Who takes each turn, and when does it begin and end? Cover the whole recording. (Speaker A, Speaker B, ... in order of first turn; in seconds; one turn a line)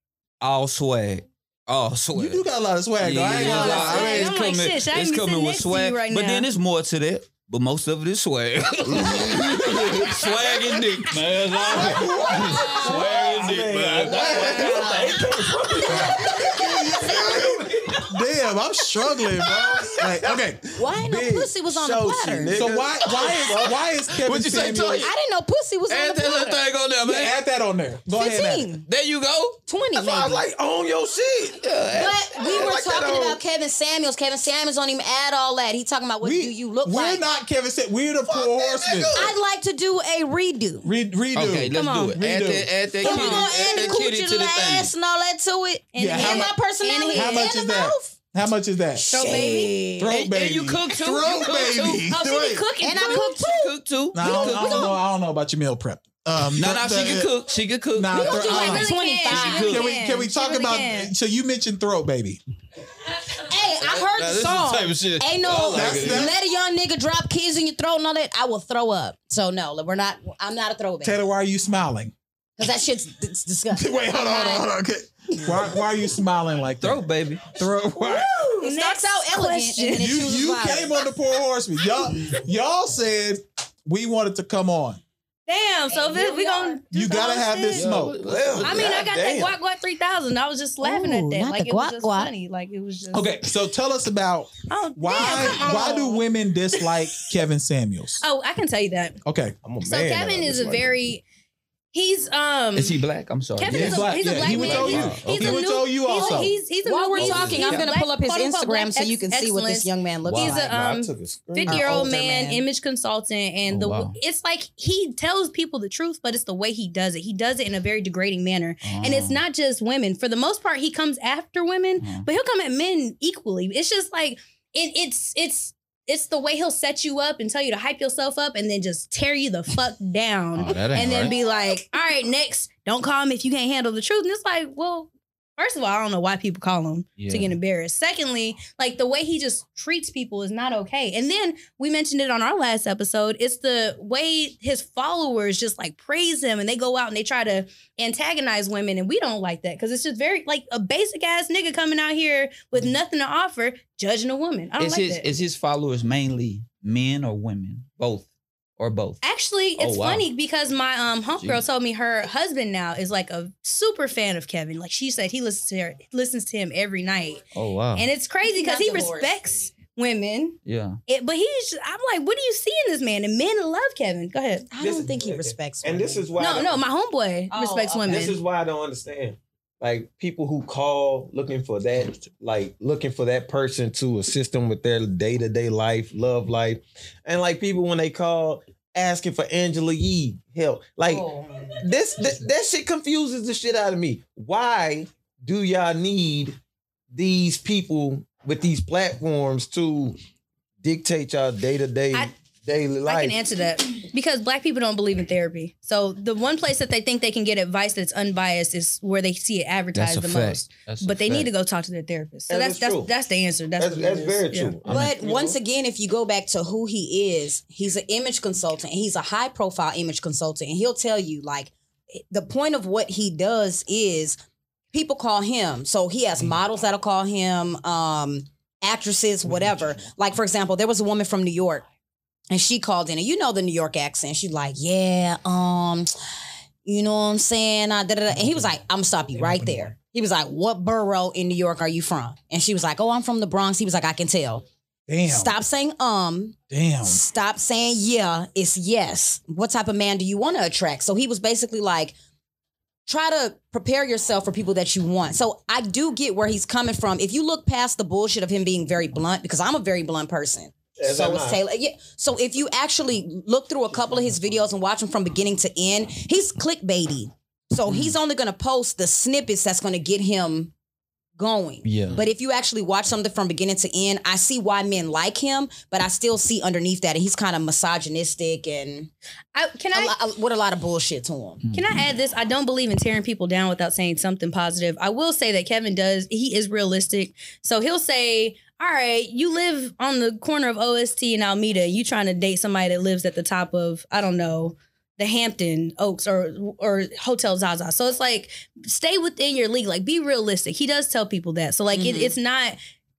Speaker A: 0.4-2.4
Speaker B: 2.1-4.3
Speaker A: 3.0-14.7
Speaker C: 3.3-6.5
Speaker B: 11.7-13.2
Speaker D: 12.4-12.8
Speaker E: 12.7-17.9
Speaker D: 14.2-15.1
Speaker B: 16.0-20.6
Speaker E: 20.0-23.2
Speaker D: 20.8-22.6
Speaker B: 22.5-25.1
Speaker A: 23.2-25.1
Speaker D: 25.0-26.6
Speaker A: 25.9-27.3
Speaker B: 27.0-28.7
Speaker D: 28.1-28.8
Speaker A: 28.9-29.6
Speaker D: 29.7-30.4
Speaker E: 29.9-31.6
Speaker A: 31.6-32.4
Speaker D: 31.9-37.2
Speaker E: 32.3-33.4
Speaker B: 36.2-39.2
Speaker E: 38.2-39.3
Speaker D: 39.1-40.9
Speaker B: 40.8-42.8
Speaker A: 41.3-44.9
Speaker C: 41.7-42.2
Speaker D: 43.0-48.1
Speaker C: 43.0-43.6
Speaker C: 45.9-47.5
Speaker B: 46.0-46.5
Speaker B: 47.1-49.4
Speaker D: 49.0-50.1
Speaker C: 49.1-50.1
Speaker B: 50.0-52.6
Speaker A: 50.1-52.0
Speaker C: 50.9-53.4
Speaker D: 52.8-54.9
Speaker A: 53.0-54.9
Speaker B: 54.1-57.3
Speaker A: 56.5-59.9
Speaker B: 57.9-58.9
Speaker D: 58.2-59.8
Speaker C: 58.2-61.1
Speaker B: 59.6-62.4
Speaker D: 63.3-71.2
Speaker A: 63.7-66.3
Speaker B: 65.7-66.3
Speaker B: 71.0-72.1
Speaker D: 72.6-74.7
Speaker B: 73.7-77.0
Speaker A: 76.8-77.5
Speaker B: 77.5-78.3
Speaker C: 78.1-80.3
Speaker D: 78.6-81.0
Speaker B: 80.0-85.0
Speaker C: 85.5-88.0
Speaker D: 85.9-86.8
Speaker B: 86.9-88.2
Speaker A: 87.7-89.0
Speaker E: 88.2-89.5
Speaker C: 88.6-93.3
Speaker D: 90.8-92.3
Speaker B: 93.1-98.2
Speaker C: 94.7-97.0
Speaker C: 98.2-99.2
Speaker B: 99.2-99.5
Speaker E: 99.6-101.0
Speaker C: 99.8-101.2
Speaker C: 101.9-103.0
Speaker A: 102.8-105.6
Speaker C: 103.6-155.3
Speaker B: 103.7-106.5
Speaker E: 103.7-105.2
Speaker D: 106.2-110.8
Speaker A: 107.2-107.9
Speaker E: 110.2-112.0
Speaker D: 111.7-112.6
Speaker A: 113.7-114.2
Speaker A: 118.8-119.4
Speaker A: 122.0-122.3
Speaker A: 130.6-131.3
Speaker D: 130.9-131.8
Speaker A: 137.2-137.6
Speaker A: 154.8-158.3
Speaker A: 158.8-159.2
Speaker C: 159.2-167.4
Speaker A: 159.8-160.2
Speaker A: 161.4-161.6
Speaker A: 167.5-168.1
Speaker C: 167.9-174.7
Speaker D: 168.4-169.3
Speaker A: 170.6-171.0
Speaker D: 174.7-176.3
Speaker E: 174.8-176.8
Speaker C: 176.4-178.3
Speaker D: 177.5-178.3
Speaker E: 178.1-191.2
Speaker D: 191.0-191.8
Speaker E: 191.8-196.6
Speaker E: 197.1-200.2
Speaker E: 200.8-203.4
Speaker C: 203.0-214.8
Speaker A: 209.9-211.5
Speaker E: 212.5-213.1
Speaker E: 213.8-215.6
Speaker A: 214.8-215.1
Speaker D: 214.8-221.7
Speaker D: 222.3-224.4
Speaker D: 224.9-231.8
Speaker D: 232.5-236.1
Speaker D: 236.8-244.6
Speaker B: 239.3-239.9
Speaker B: 245.1-245.5
Speaker D: 245.3-252.1
Speaker B: 246.7-247.2
Speaker D: 253.1-270.7
Speaker E: 261.0-261.6
Speaker A: 267.9-268.1
Speaker D: 271.4-279.1
Speaker A: 271.8-272.2
Speaker C: 279.5-280.1
Speaker D: 279.9-281.6
Speaker A: 281.6-282.0
Speaker C: 281.7-302.8
Speaker D: 301.9-302.3